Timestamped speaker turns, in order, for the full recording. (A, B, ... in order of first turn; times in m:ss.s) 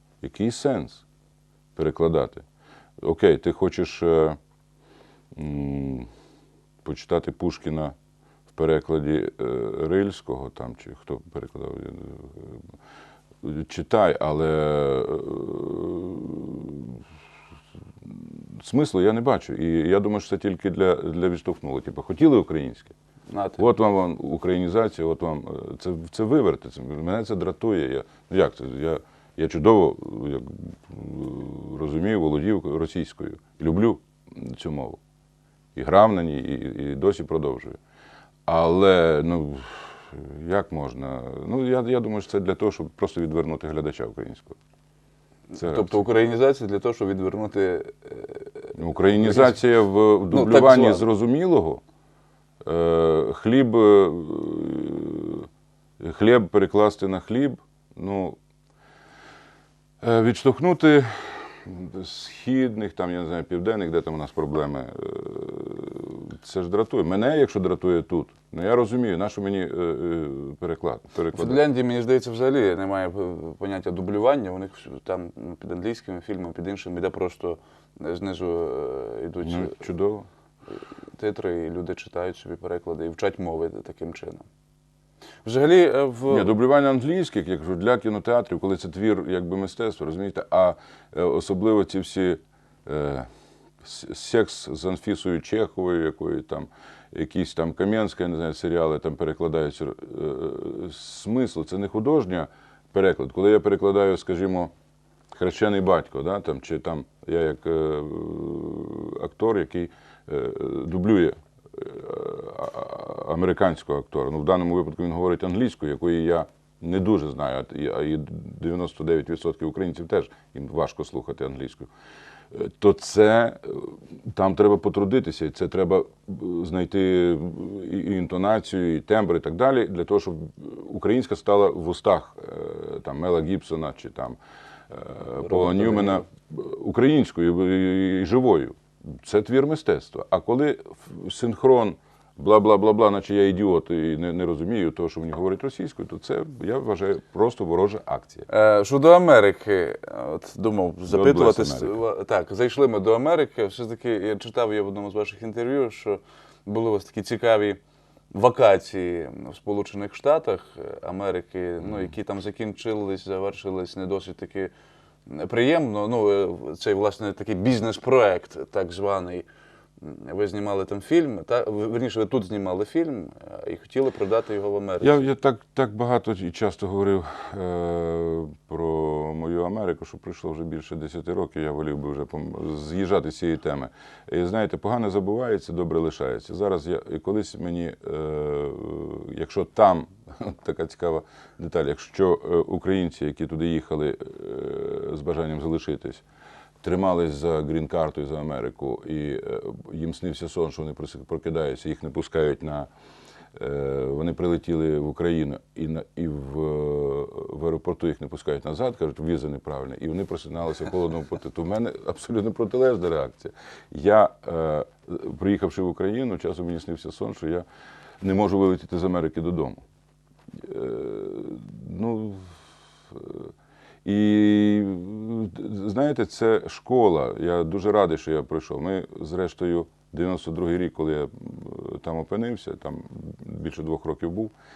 0:00.2-0:01.0 A
0:01.8-0:02.4 A
0:03.0-0:04.4 A
0:05.3-0:06.1 A
0:06.8-0:08.0 A
0:08.5-0:12.7 A
0:13.4-0:17.0 A
0:18.0-0:22.9 A
0:23.3-0:23.6 B
0:23.6-0:35.0 A
0:35.8-0:37.8 A
0:38.5-0:44.6 A
0:45.5-0:49.6 B
0:45.6-0:46.0 A
0:48.7-0:51.8 A
0:50.3-0:51.1 B
0:52.6-0:55.5 A
0:56.0-0:58.4 A
1:00.0-1:11.6 A
1:11.3-1:19.8 B
1:19.4-1:20.3 A
1:21.1-1:24.5 B
1:25.4-1:26.5 B
1:26.3-1:33.3 A
1:33.8-1:44.7 A
1:45.3-2:01.9 A
2:02.5-2:14.4 A
2:14.9-2:28.5 A
2:15.4-2:16.2 B
2:28.5-2:37.8 B
2:31.1-2:32.0 A
2:38.3-2:44.7 B
2:45.3-2:49.5 B
2:50.0-2:55.2 B
2:55.0-3:16.2 A
3:16.8-3:22.9 A
3:23.5-3:37.6 A
3:38.2-3:39.8 A
3:40.5-3:43.5 A
3:44.0-3:54.5 A